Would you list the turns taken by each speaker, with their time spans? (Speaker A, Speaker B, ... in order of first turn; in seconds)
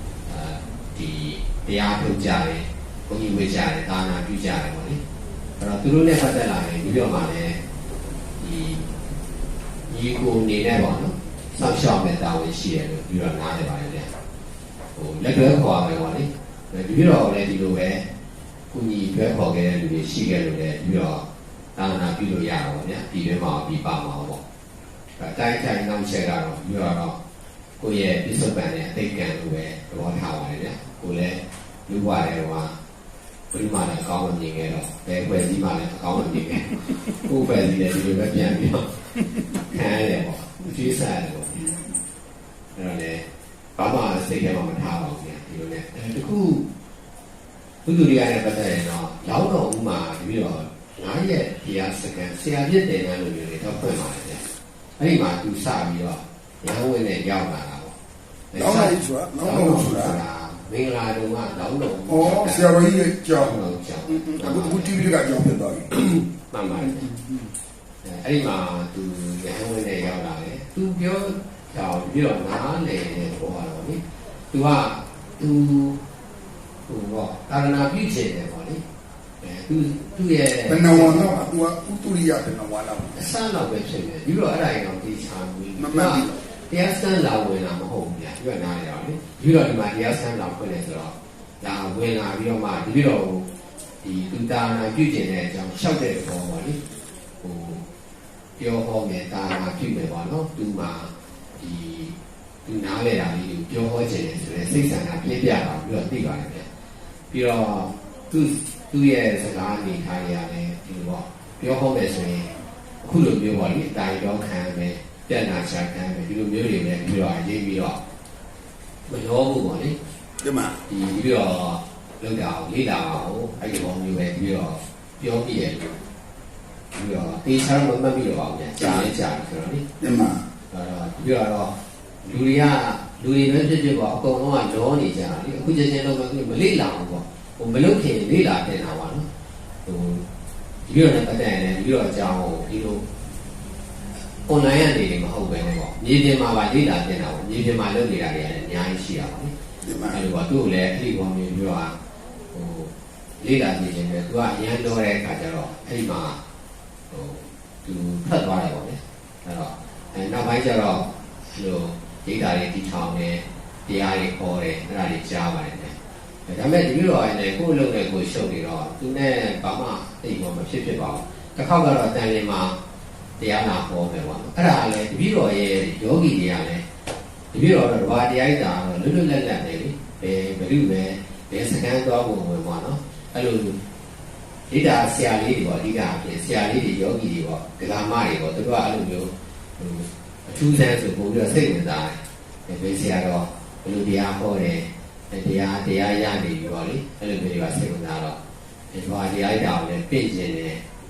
Speaker A: 0.2-5.0, 5.6-7.6, 8.4-8.9, 9.9-14.1, 14.9-18.1, 18.7-21.2, 21.8-24.4, 25.2-27.2, 27.8-32.7, 33.5-39.0, 39.6-41.8, 42.7-43.2, 43.8-46.7, 47.8-54.4, 55.0-57.9, 58.5-62.7, 63.4-64.9, 65.9-67.1, 68.0-76.0, 76.9-78.8, 79.4-81.5, 83.1-93.5, 94.0-96.8, 97.4-97.8, 98.6-106.7, 107.3-112.5, 113.0-118.0, 119.0-120.0, 120.9-126.0, 126.9-129.8, 130.7-139.2, 139.8-140.2, 140.9-143.0, 144.4-149.5, 150.1-152.0, 152.5-156.4, 157.1-165.9, 166.5-172.8, 173.4-176.8, 177.5-183.8, 184.7-198.4, 198.9-200.8
Speaker B: 58.5-60.2, 62.0-65.9, 66.8-67.5, 80.6-83.3, 85.7-86.4, 120.4-120.8, 128.8-129.1, 130.0-130.4, 149.8-150.2